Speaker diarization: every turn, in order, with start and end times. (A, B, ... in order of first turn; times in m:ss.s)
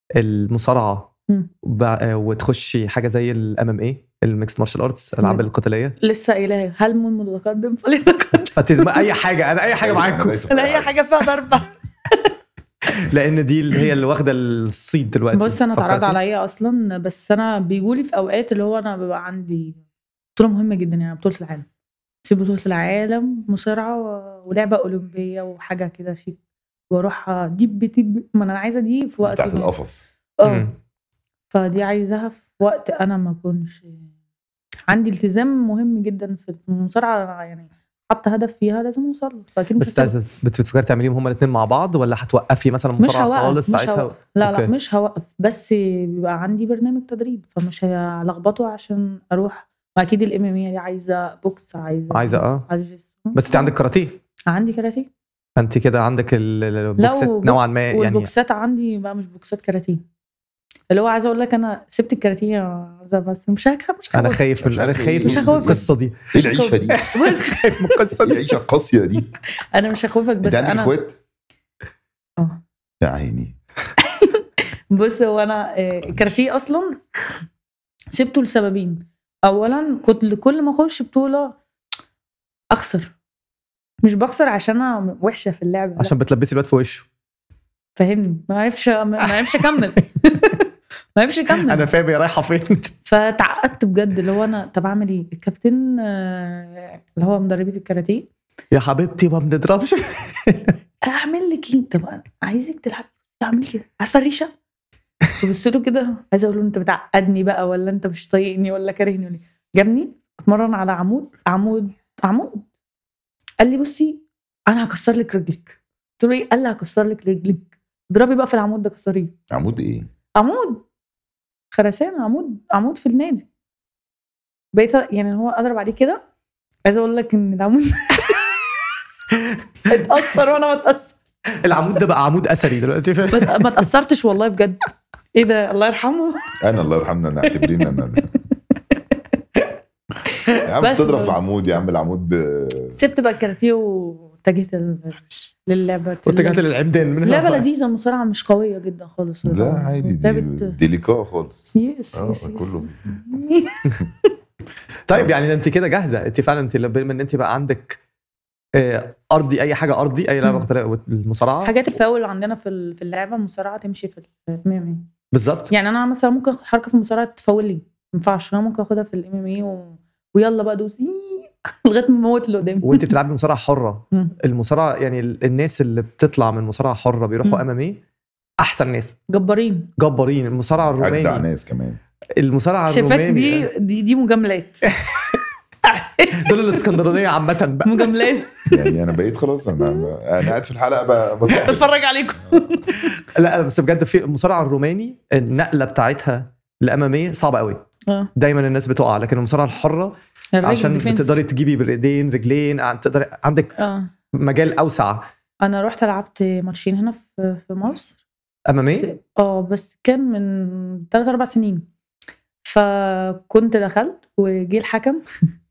0:00.2-0:01.1 A
0:01.6-0:06.0 A
0:06.0-0:09.1 B
0:08.5-0:10.4 A
0:09.7-0:11.0 C
0:10.5-0:12.3 B
0:13.0-0:16.2 A
0:15.3-0:19.8 B
0:20.4-0:21.7 B
0:22.2-0:26.4 B
0:26.9-0:29.7 B
0:29.2-0:30.0 C
0:30.4-0:30.7 B
0:30.4-0:30.7 A
0:31.5-0:34.0 B
0:34.9-0:40.2 B
0:39.8-0:44.7 A
0:43.0-0:53.7 B
0:52.1-0:52.7 A
0:53.3-0:54.2 A
0:54.5-0:55.1 B
0:55.6-0:58.3 A
0:57.0-1:00.0 B
1:00.9-1:04.4 B
1:04.1-1:06.3 A
1:04.6-1:07.1 C
1:05.1-1:07.9 B
1:06.9-1:08.4 A
1:08.2-1:09.3 C
1:09.7-1:10.9 B
1:10.4-1:11.2 C
1:13.0-1:13.6 C
1:14.0-1:17.0 B
1:16.0-1:16.4 C
1:18.1-1:21.6 B
1:22.7-1:23.1 B
1:24.0-1:26.1 B
1:26.0-1:27.1 A
1:28.0-1:31.9 B
1:29.5-1:29.8 A
1:31.6-1:32.9 A
1:33.1-1:38.3 B
1:38.7-1:40.8 A
1:41.0-1:44.5 B
1:45.4-1:52.7 B
1:53.6-1:59.4 B
1:59.5-2:00.1 C
2:00.4-2:00.8 B
2:01.7-2:03.5 B
2:04.7-2:06.2 B
2:06.8-2:08.5 B
2:09.9-2:11.2 B
2:11.6-2:13.8 A
2:13.3-2:16.6 B
2:16.6-2:18.3 C
2:20.6-2:23.0 C
2:20.8-2:21.4 B
2:23.0-2:26.6 B
2:26.3-2:27.7 A
2:27.2-2:30.8 B
2:29.4-2:33.2 C
2:31.8-2:33.9 B
2:35.1-2:38.0 A
2:38.8-2:41.7 A
2:41.6-2:45.1 B
2:45.3-2:45.7 A
2:45.7-2:53.1 B
2:52.8-2:58.0 A
2:58.6-2:59.2 A
2:59.3-2:59.9 B
3:00.0-3:01.4 A
3:01.0-3:02.0 C
3:02.4-3:03.7 A
3:02.9-3:04.8 B
3:05.0-3:05.4 A
3:05.8-3:06.8 B
3:06.4-3:08.3 A
3:07.8-3:08.7 B
3:08.7-3:11.9 C
3:09.8-3:10.1 B
3:11.5-3:13.2 B
3:13.3-3:17.8 A
3:18.4-3:23.7 A
3:20.5-3:21.4 B
3:23.8-3:24.1 B
3:24.3-3:25.3 A
3:25.6-3:28.2 B
3:28.7-3:29.1 A
3:28.9-3:31.9 B
3:32.6-3:35.2 B